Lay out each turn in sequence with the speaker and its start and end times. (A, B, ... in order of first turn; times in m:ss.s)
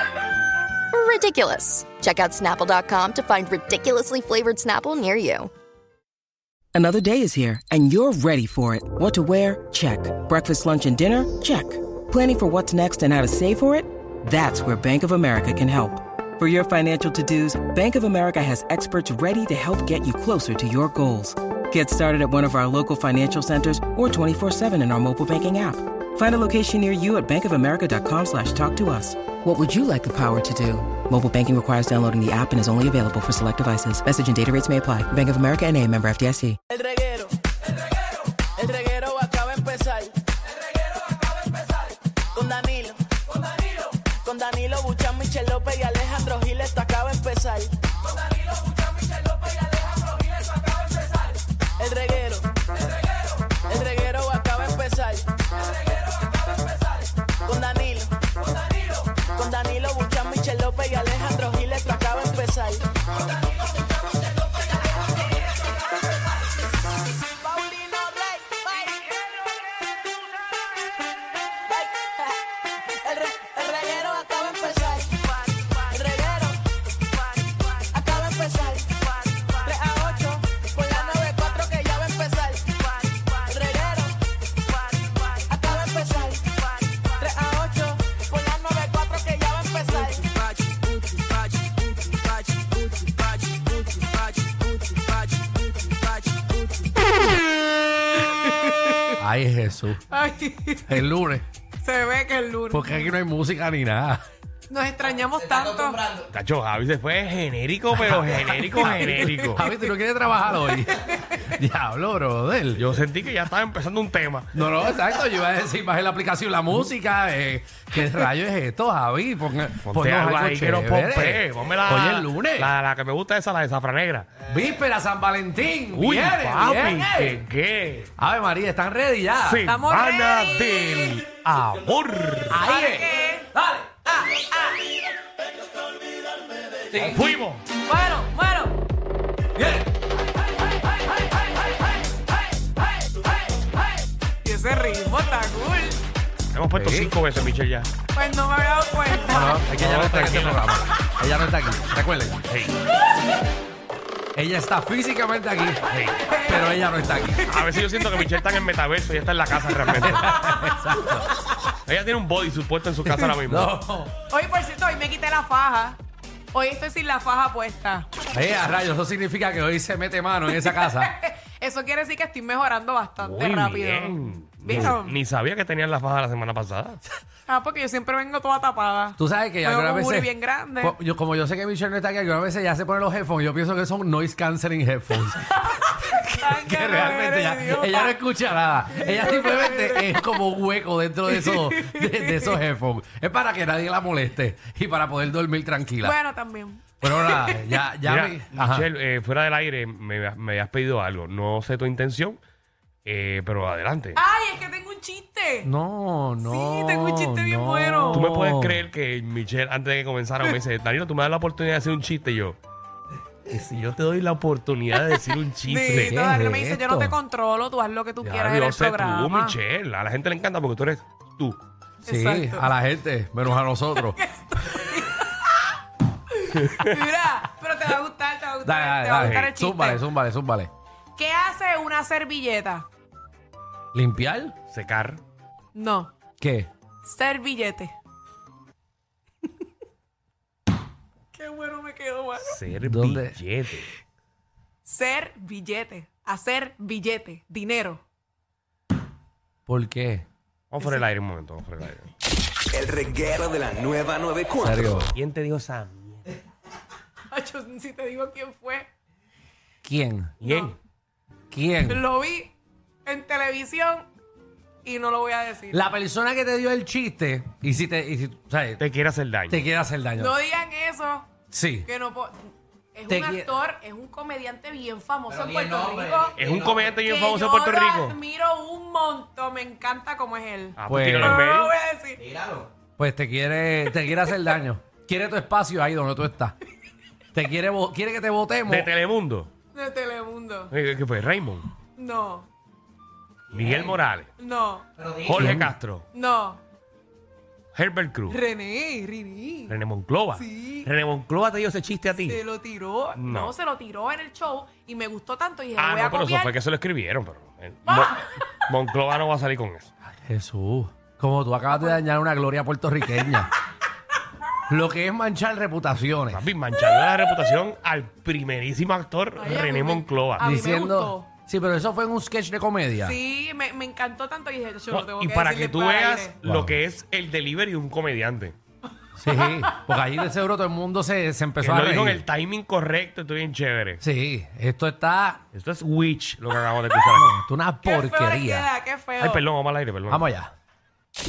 0:00.9-0:05.5 A
0:06.7-0:36.6 B
0:36.7-0:37.4 C
0:38.6-0:40.2 C
0:42.3-0:43.0 C
0:44.2-0:47.8 C
0:51.8-0:52.5 C
0:53.7-0:55.3 C
0:57.4-0:58.2 C
0:59.3-1:02.9 C
1:07.3-1:09.2 C
1:11.7-1:12.4 C
1:12.9-1:16.6 C
1:17.9-1:19.1 C
1:19.6-1:24.2 C
1:25.0-1:30.3 C
1:30.6-1:30.9 D
1:38.2-1:39.2 D
1:39.2-1:40.0 E
1:40.1-1:41.0 D
1:40.9-1:41.4 E
1:41.8-1:43.1 D
1:42.7-1:44.2 E
1:44.7-1:46.1 D
1:46.3-1:49.6 F
1:48.0-1:52.9 E
1:48.8-1:49.8 D
1:51.1-1:51.5 D
1:52.8-1:54.5 F
1:54.5-2:02.7 E
1:59.8-2:04.3 F
2:04.4-2:07.4 E
2:05.9-2:08.1 F
2:08.2-2:09.7 E
2:09.4-2:12.7 F
2:09.7-2:11.2 D
2:12.5-2:14.0 E
2:12.5-2:13.5 D
2:14.3-2:14.8 D
2:16.9-2:17.2 E
2:17.0-2:17.6 F
2:17.8-2:18.8 D
2:19.6-2:19.8 E
2:24.4-2:26.0 D
2:26.5-2:27.9 F
2:26.8-2:27.1 E
2:28.1-2:29.6 D
2:29.2-2:32.4 E
2:29.7-2:30.6 F
2:32.5-2:32.8 F
2:34.4-2:35.8 E
2:35.9-2:36.2 F
2:36.3-2:36.8 D
2:36.4-2:37.5 E
2:37.4-2:37.8 D
2:37.5-2:40.4 F
2:39.8-2:41.3 E
2:40.3-2:40.7 D
2:41.9-2:43.7 F
2:43.1-2:44.1 E
2:44.3-2:46.0 D
2:46.5-2:48.1 D
2:48.3-2:51.2 E
2:50.5-2:55.2 D
2:53.2-2:57.0 F
2:54.7-2:55.0 E
2:57.5-3:01.0 D
2:59.2-3:16.2 E
3:05.6-3:08.2 D
3:08.9-3:10.3 D
3:11.3-3:12.6 D
3:16.0-3:17.8 D
3:17.0-3:18.9 E
3:18.0-3:22.4 F
3:23.0-3:24.2 F
3:24.2-3:25.7 D
3:25.6-3:28.9 E
3:26.4-3:28.3 D
3:28.1-3:32.6 F
3:33.5-3:36.2 F
3:35.6-3:39.6 D
3:35.9-3:37.2 E
3:38.2-3:41.6 F
3:42.0-3:42.7 D
3:42.0-3:44.2 E
3:44.0-3:45.7 D
3:46.3-3:50.0 D
3:48.6-3:50.7 E
3:49.2-3:49.5 F
3:51.2-3:52.9 D
3:53.9-3:54.6 E
3:54.7-3:55.2 F
3:55.7-3:56.1 D
3:56.4-3:56.7 E
3:57.0-3:57.9 D
4:01.3-4:02.6 D
4:02.4-4:03.9 F
4:02.8-4:03.4 E
4:04.8-4:08.0 D
4:09.7-4:10.2 E
4:10.7-4:12.1 F
4:12.7-4:15.0 G
4:14.6-4:15.1 E
4:15.1-4:16.3 F
4:17.3-4:18.9 D
4:19.8-4:20.4 E
4:20.4-4:20.8 F
4:20.4-4:20.8 D
4:21.5-4:22.0 E
4:21.9-4:22.5 D
4:23.0-4:24.1 D
4:24.8-4:25.9 D
4:25.7-4:28.8 E
4:28.8-4:29.6 F
4:29.5-4:30.4 E
4:30.2-4:31.3 D
4:31.5-4:31.9 E
4:31.8-4:36.4 D
4:33.1-4:33.6 E
4:36.3-4:38.2 F
4:37.0-4:42.2 D
4:40.8-4:41.7 F
4:40.9-4:41.4 E
4:43.0-4:46.6 E
4:47.3-4:48.9 E
4:48.7-4:49.5 F
4:49.7-4:50.7 D
4:50.7-4:51.7 F
4:52.0-4:52.5 D
4:53.5-4:54.3 F
4:54.4-4:54.9 D
4:55.1-4:56.1 F
4:55.3-4:55.7 E
4:56.1-4:56.6 D
4:57.8-4:58.4 F
4:58.3-4:59.8 D
4:59.7-5:02.4 F
5:00.4-5:00.9 D
5:02.2-5:06.5 D
5:03.2-5:03.5 F
5:05.8-5:09.9 F
5:07.9-5:08.4 D
5:10.2-5:13.5 E
5:11.7-5:12.0 D
5:14.7-5:16.4 E
5:16.3-5:20.5 F
5:19.4-5:21.3 D
5:20.4-5:23.2 E
5:23.0-5:26.4 D
5:24.9-5:28.6 F
5:26.4-5:26.8 E
5:29.2-5:32.2 E
5:29.3-5:29.6 D
5:31.6-5:34.0 F
5:34.0-5:35.4 E
5:35.5-5:37.4 F
5:37.2-5:38.7 E
5:37.8-5:39.5 D
5:39.2-5:40.3 F
5:40.1-5:40.5 E